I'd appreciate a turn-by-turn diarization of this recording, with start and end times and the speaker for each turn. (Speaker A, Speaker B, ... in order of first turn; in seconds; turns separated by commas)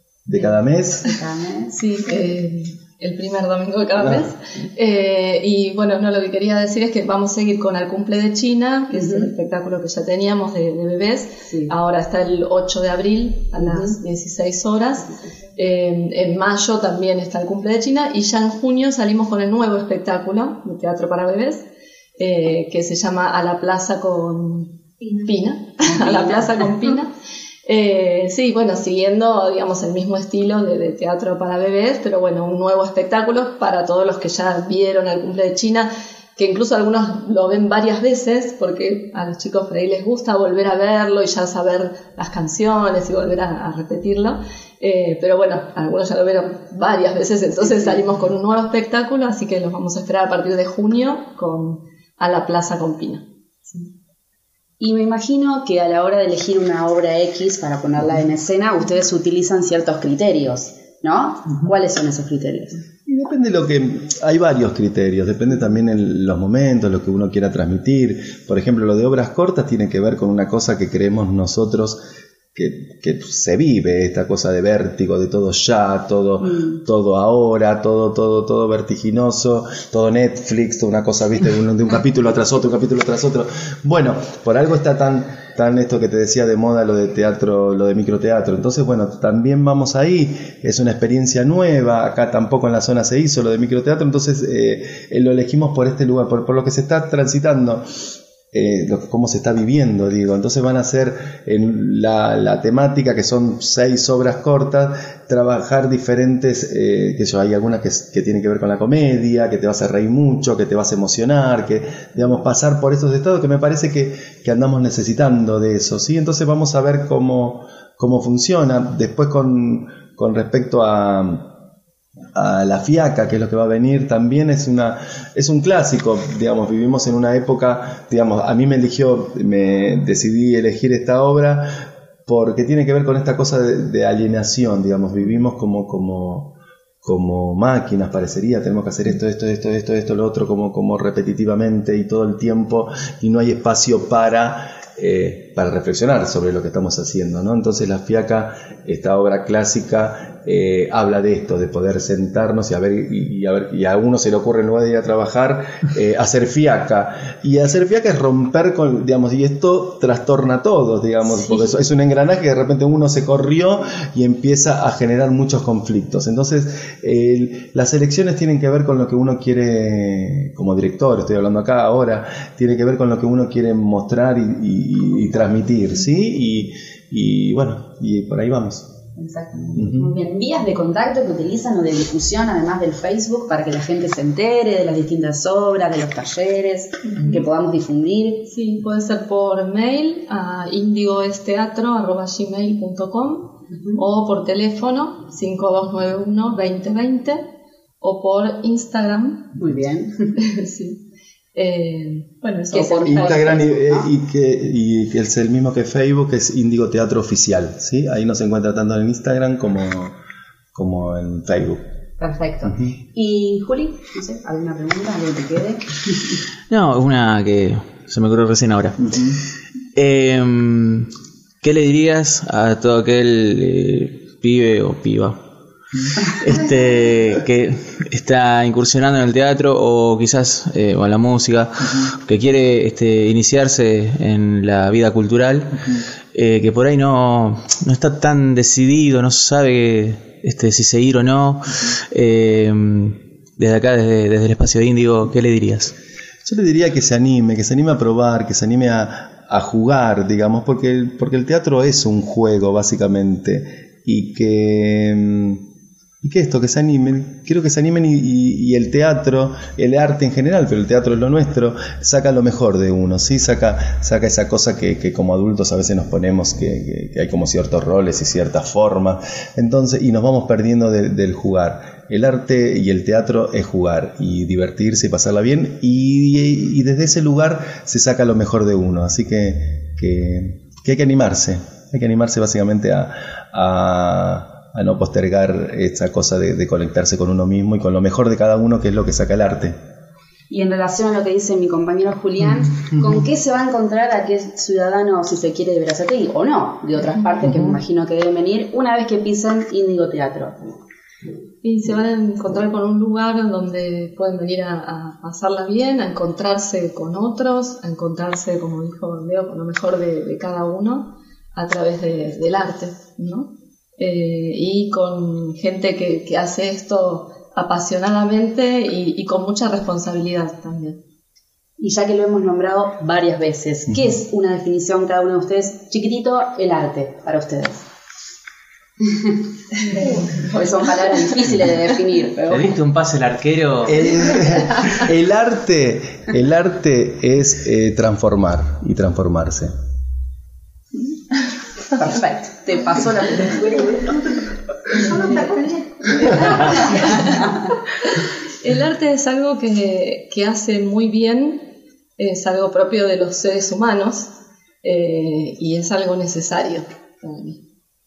Speaker A: 0.2-1.1, Speaker B: 0.3-1.8, Speaker C: 1.7-21.6, Speaker A: 4.0-4.2, Speaker B: 8.9-9.3, Speaker B: 11.5-11.7, Speaker B: 13.6-13.9, Speaker C: 22.2-27.1, Speaker B: 25.8-26.5, Speaker C: 27.6-53.2, Speaker B: 54.8-62.8, Speaker A: 63.1-72.0, Speaker A: 72.5-97.8, Speaker A: 98.5-121.5, Speaker A: 122.3-178.9, Speaker B: 179.2-188.5, Speaker A: 179.8-180.1, Speaker C: 188.5-197.5, Speaker C: 198.0-199.5, Speaker B: 199.6-200.3, Speaker C: 200.3-201.0, Speaker C: 201.5-203.4, Speaker B: 202.7-204.1, Speaker A: 203.0-210.2, Speaker A: 210.7-211.8, Speaker B: 212.2-216.4, Speaker A: 212.7-212.9, Speaker D: 216.7-219.3, Speaker D: 219.9-221.1, Speaker D: 221.6-225.4, Speaker D: 226.2-245.9, Speaker A: 246.4-255.6, Speaker A: 256.2-289.8, Speaker B: 290.5-300.6, Speaker C: 301.6-321.0, Speaker B: 321.8-327.8, Speaker B: 329.0-332.8, Speaker D: 332.5-334.1, Speaker A: 333.8-339.7, Speaker B: 341.9-344.4, Speaker B: 344.9-347.4, Speaker C: 346.5-347.4, Speaker C: 348.6-351.7, Speaker C: 352.2-354.3, Speaker C: 354.8-357.6